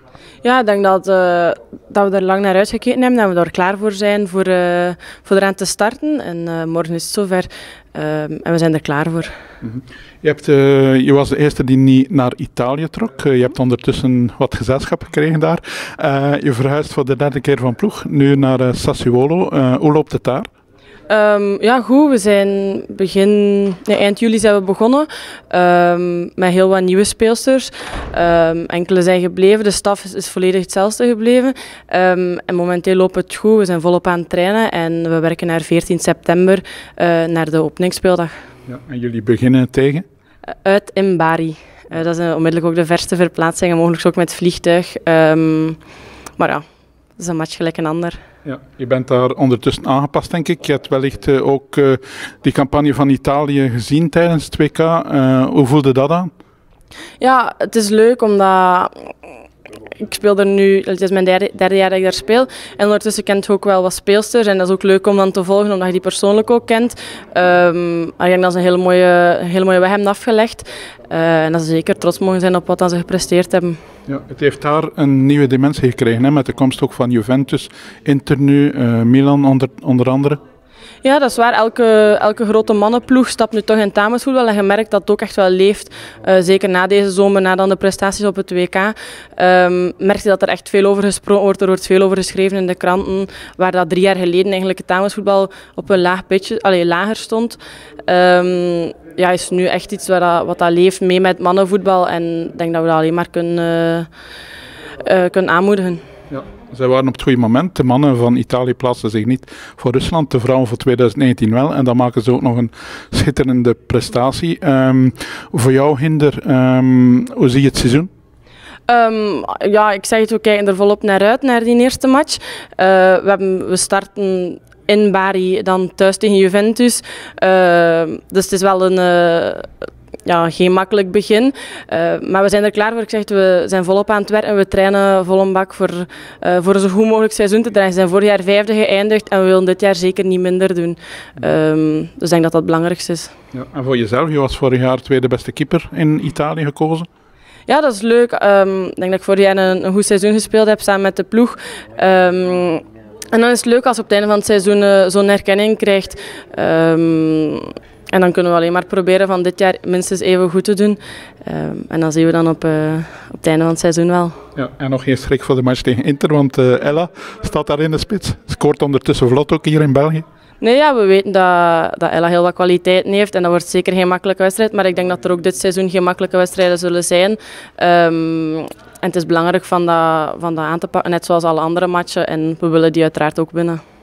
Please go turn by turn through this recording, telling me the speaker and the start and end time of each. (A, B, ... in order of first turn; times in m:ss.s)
0:00.4-0:09.3 A
0:09.6-0:20.5 B
0:21.1-0:38.4 A
0:38.7-0:40.0 B
0:40.6-0:45.8 A
0:46.4-0:46.6 A
0:47.2-0:48.2 A
0:48.4-0:56.3 B
0:57.2-0:59.1 A
0:59.9-1:13.8 A
1:14.1-1:20.4 B
1:21.0-1:44.1 A
1:45.0-1:46.0 A
1:46.3-1:58.1 B
1:58.9-2:09.7 A
2:10.2-2:23.3 A
2:23.5-2:27.1 B
2:27.7-2:44.4 A
2:44.6-2:50.2 B
2:50.6-3:03.8 A